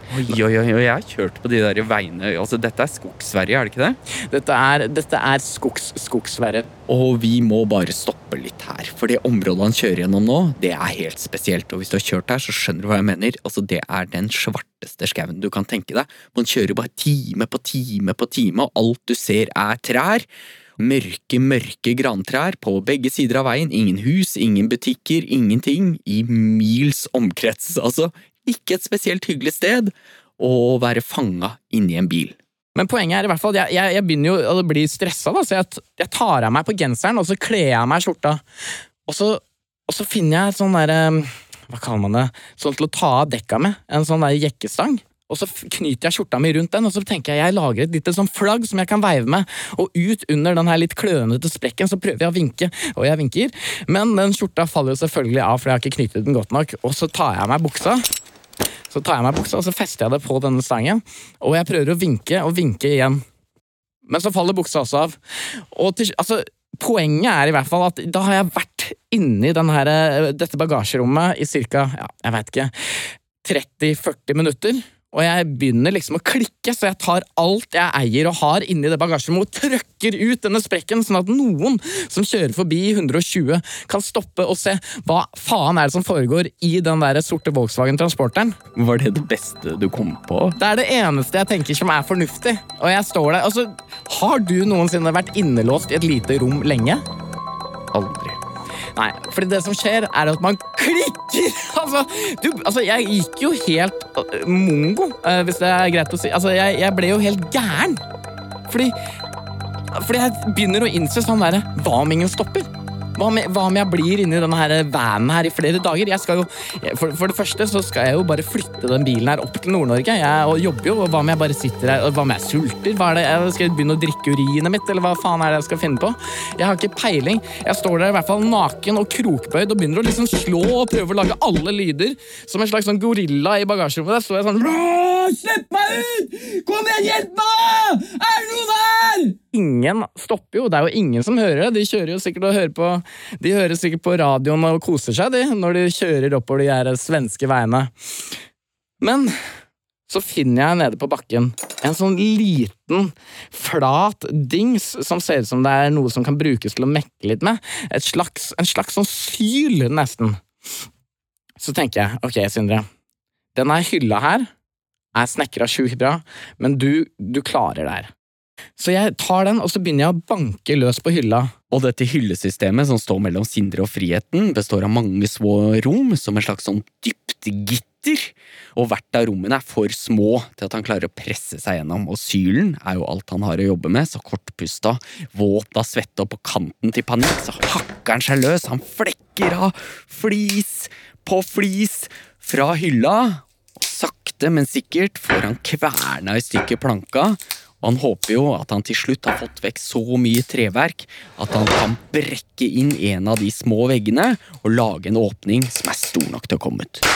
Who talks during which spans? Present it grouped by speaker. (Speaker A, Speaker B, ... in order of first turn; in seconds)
Speaker A: 0.1-4.0, 6.9-20.2, 20.8-32.4, 88.8-90.6, 97.9-98.4, 171.7-207.1
Speaker B: 4.3-6.7, 32.8-38.4, 39.1-58.0, 58.9-63.2, 64.1-65.2, 65.7-72.7, 73.4-88.6, 90.6-97.0, 99.0-108.0, 108.7-108.9, 109.9-147.9, 149.0-149.3, 150.1-160.4, 161.6-162.8, 163.6-164.5, 165.1-168.1, 168.8-171.5